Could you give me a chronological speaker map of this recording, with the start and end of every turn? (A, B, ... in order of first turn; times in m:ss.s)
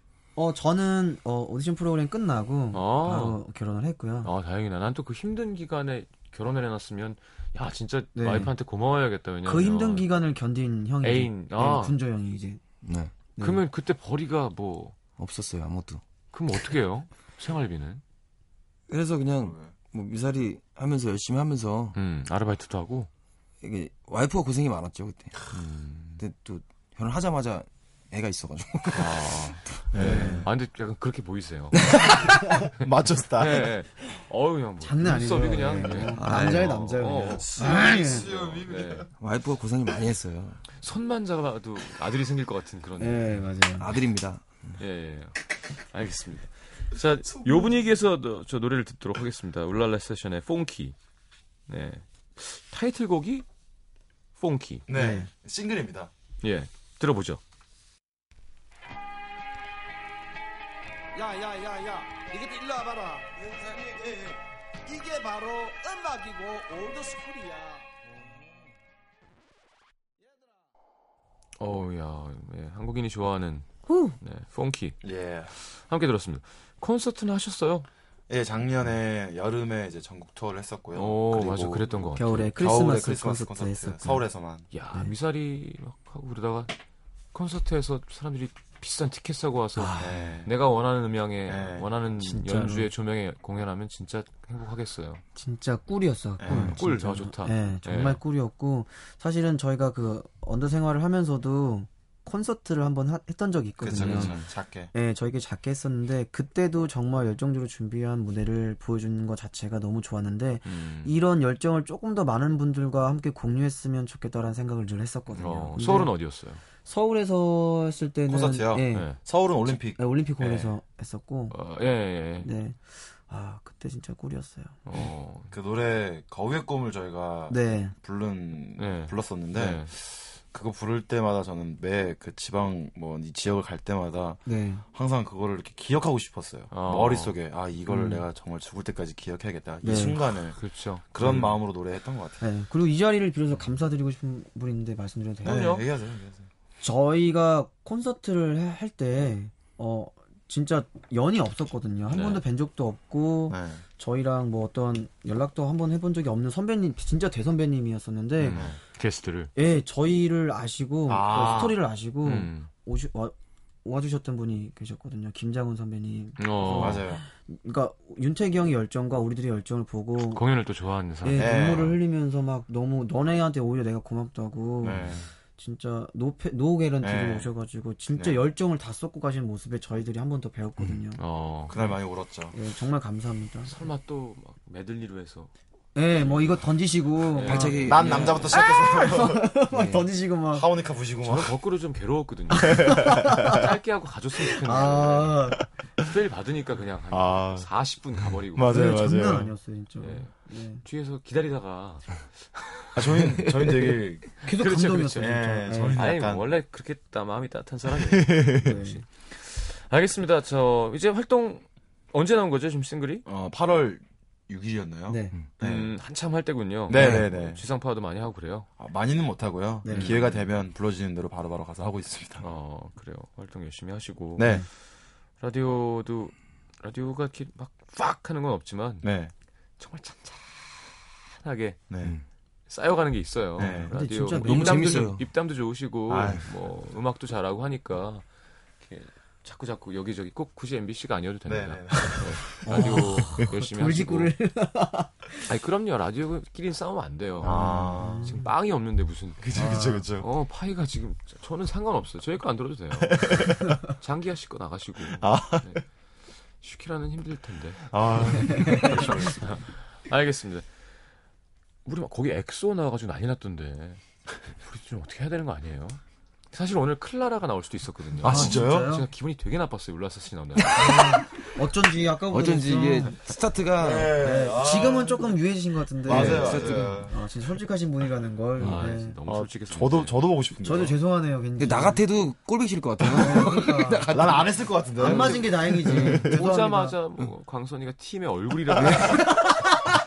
0:00.4-0:04.3 A
0:02.7-0:03.4 B
0:04.2-0:10.0 B
0:08.1-0:08.5 A
0:09.4-0:12.6 A
0:11.0-0:12.0 B
0:12.8-0:13.1 C
0:13.4-0:13.6 A
0:13.4-0:15.0 B
0:15.2-0:16.0 C
0:16.3-0:18.0 B
0:18.9-0:22.0 C
0:19.4-0:19.7 D
0:21.9-0:23.1 B
0:23.6-0:25.5 C
0:25.5-0:26.2 B
0:26.2-0:29.6 C
0:28.9-0:32.2 B
0:29.9-0:30.5 D
0:30.0-0:30.4 A
0:32.0-0:33.7 D
0:32.8-0:39.1 B
0:34.8-0:38.3 A
0:36.0-0:36.8 C
0:37.3-0:39.1 D
0:39.2-0:40.6 C
0:40.7-0:43.4 B
0:43.0-0:43.9 A
0:43.8-0:44.8 C
0:44.8-0:45.4 B
0:45.9-0:51.0 B
0:51.7-0:53.4 B
0:54.4-0:54.9 B
0:54.9-0:56.1 D
0:54.9-0:55.3 A
0:56.4-0:57.4 B
1:01.1-1:08.3 E
1:10.2-1:10.6 E
1:11.6-1:13.7 B
1:13.9-1:14.2 A
1:14.2-1:17.9 B
1:15.0-1:15.5 D
1:18.3-1:21.8 D
1:20.9-1:22.7 B
1:22.2-1:24.2 A
1:22.6-1:24.7 D
1:24.7-1:26.7 B
1:27.3-1:35.2 B
1:29.8-1:30.1 A
1:30.0-1:30.5 D
1:31.4-1:31.9 D
1:32.2-1:32.9 A
1:35.4-1:44.4 A
1:36.4-1:36.8 D
1:36.5-1:38.2 B
1:43.8-1:44.9 D
1:44.0-1:44.4 B
1:44.9-1:56.1 A
1:50.6-1:51.2 B
1:55.3-1:56.6 B
1:56.8-1:59.1 A
1:58.3-2:00.7 D
1:58.9-1:59.2 B
1:59.8-2:01.5 A
2:01.5-2:02.5 B
2:02.4-2:04.8 A
2:04.9-2:05.5 B
2:05.5-2:20.6 D
2:07.5-2:07.9 A
2:08.8-2:09.9 B
2:14.4-2:14.8 A
2:16.7-2:17.4 B
2:17.9-2:18.2 A
2:19.8-2:20.2 A
2:20.5-2:21.6 B
2:21.1-2:22.4 D
2:22.4-2:25.7 A
2:25.4-2:25.9 B
2:25.4-2:26.5 D
2:26.8-2:38.6 A
2:32.1-2:32.4 B
2:33.5-2:33.8 D
2:38.4-2:39.5 B
2:38.5-2:38.8 D
2:39.6-2:50.4 A
2:41.1-2:41.8 D
2:42.2-2:42.7 B
2:46.4-2:47.1 B
2:46.6-2:47.2 D
2:50.2-2:51.8 B
2:51.2-2:55.0 A
2:51.3-2:52.0 D
2:54.8-2:55.3 D
2:55.6-3:01.2 A
2:57.0-2:57.5 D
2:58.1-2:58.4 D
3:01.2-3:01.8 B
3:01.7-3:02.5 D
3:02.5-3:03.7 A
3:03.7-3:05.5 B
3:05.9-3:08.0 A
3:07.3-3:08.6 B
3:07.4-3:08.4 C
3:07.8-3:09.7 D
3:08.5-3:10.7 A
3:10.5-3:11.5 D
3:11.2-3:19.0 B
3:12.6-3:13.7 D
3:12.6-3:13.6 A
3:14.4-3:15.6 A
3:17.1-3:17.7 D
3:18.5-3:19.5 D
3:18.7-3:20.8 A
3:20.0-3:23.2 B
3:22.9-3:24.3 D
3:23.3-3:24.0 C
3:24.4-3:26.0 A
3:24.4-3:33.2 B
3:25.2-3:26.5 D
3:27.9-3:28.8 D
3:28.6-3:29.0 A
3:33.2-3:35.9 D
3:35.1-3:35.4 A
3:35.6-3:38.7 B
3:36.9-3:37.6 D
3:36.9-3:37.2 C
3:38.8-3:42.4 D
3:39.8-3:40.2 A
3:39.9-3:40.5 B
3:42.4-3:44.6 B
3:44.4-3:44.6 D
3:44.4-3:44.7 A
3:45.4-3:49.1 B
3:49.0-3:49.3 D
3:49.8-3:50.5 B
3:51.3-3:51.8 B
3:51.9-3:52.2 D
3:52.7-3:58.2 B
3:53.6-3:53.9 D
3:53.9-3:55.1 A
3:54.4-3:55.2 C
3:56.1-3:56.5 D
3:58.8-4:04.3 B
4:01.4-4:03.4 D
4:02.6-4:05.4 A
4:05.4-4:20.8 B
4:07.4-4:08.5 D
4:07.4-4:08.4 A
4:09.4-4:10.3 D
4:13.1-4:13.8 D
4:15.1-4:15.8 D
4:17.9-4:19.5 D
4:21.8-4:24.0 B
4:24.6-4:26.0 B
4:26.5-4:30.8 B
4:28.2-4:28.9 D
4:28.2-4:28.6 C
4:28.2-4:29.1 A
4:30.6-4:31.2 C
4:30.8-4:33.2 A
4:32.3-4:34.2 C
4:33.8-4:35.4 D
4:34.2-4:39.2 A
4:36.0-4:37.2 D
4:36.0-4:37.0 C
4:38.6-4:38.9 C
4:38.6-4:40.2 B
4:39.2-4:41.0 D
4:40.6-4:42.0 A
4:41.6-4:45.4 C
4:43.1-4:44.0 A
4:44.1-4:46.4 D
4:45.0-4:47.0 A
4:45.9-4:49.4 B
4:45.9-4:46.3 C
4:48.7-4:49.6 C
4:49.0-4:49.8 D